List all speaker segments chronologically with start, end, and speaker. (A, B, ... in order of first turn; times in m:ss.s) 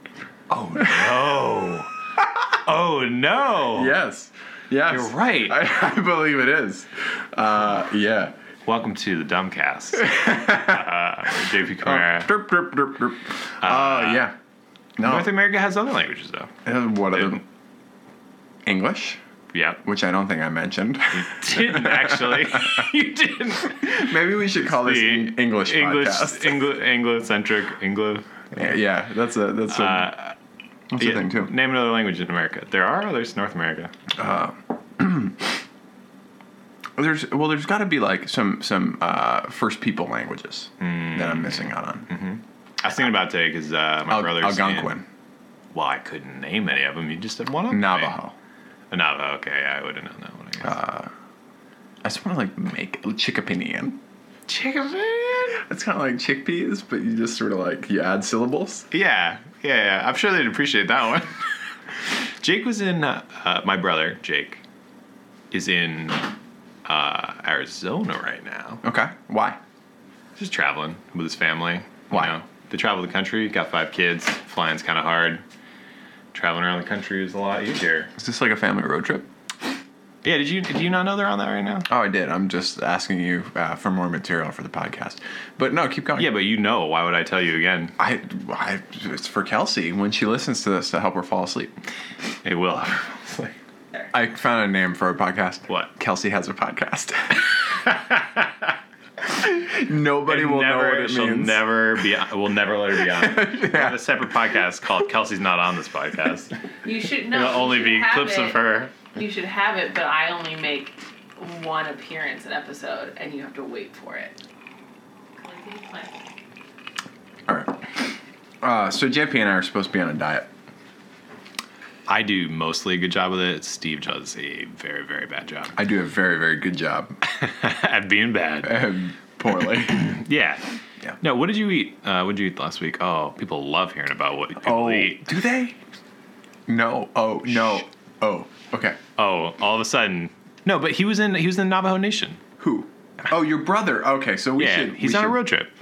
0:00.5-0:01.9 A
0:00.8-0:01.1 B
0:02.5-0:04.0 A
0:03.7-0:08.4 B
0:04.9-0:05.6 A
0:08.6-0:12.3 A
0:10.0-0:10.9 B
0:11.8-0:14.4 B
0:13.6-0:14.3 A
0:15.0-0:15.3 B
0:15.0-0:16.6 A
0:16.6-0:17.4 B
0:17.1-0:17.4 A
0:18.6-0:19.2 B
0:19.5-0:19.8 A
0:19.8-0:22.9 B
0:21.1-0:24.0 A
0:23.7-0:26.7 B
0:24.7-0:28.6 A
0:28.5-0:30.1 B
0:29.7-0:30.4 A
0:30.9-0:31.5 B
0:31.0-0:33.9 A
0:34.1-0:35.5 B
0:37.0-0:42.1 B
0:40.8-0:45.0 A
0:44.1-0:45.1 B
0:45.7-0:48.2 A
0:47.7-0:48.4 B
0:48.9-0:50.8 A
0:50.6-0:51.1 B
0:52.0-0:54.0 B
0:54.5-0:55.6 A
0:55.5-0:58.9 B
0:58.9-1:01.5 A
1:02.4-1:04.6 A
1:05.5-1:06.3 A
1:06.8-1:08.8 A
1:08.8-1:09.6 B
1:10.4-1:15.4 A
1:16.3-1:18.1 A
1:18.2-1:19.3 B
1:20.2-1:21.9 A
1:21.9-1:26.3 B
1:26.2-1:28.0 A
1:28.0-1:31.7 B
1:32.4-1:33.6 A
1:34.1-1:37.4 B
1:37.7-1:38.7 A
1:39.3-1:41.7 B
1:40.3-1:46.5 A
1:43.0-1:44.1 B
1:46.8-1:54.4 C
1:47.3-1:49.0 A
1:55.4-1:56.1 C
1:57.5-1:58.1 B
1:58.6-2:00.5 B
2:02.1-2:05.8 A
2:05.8-2:07.2 B
2:07.2-2:09.0 A
2:08.6-2:10.2 B
2:09.9-2:10.6 A
2:11.2-2:15.3 A
2:14.6-2:15.8 B
2:16.7-2:19.0 B
2:19.2-2:22.4 A
2:22.6-2:25.4 B
2:24.6-2:25.7 A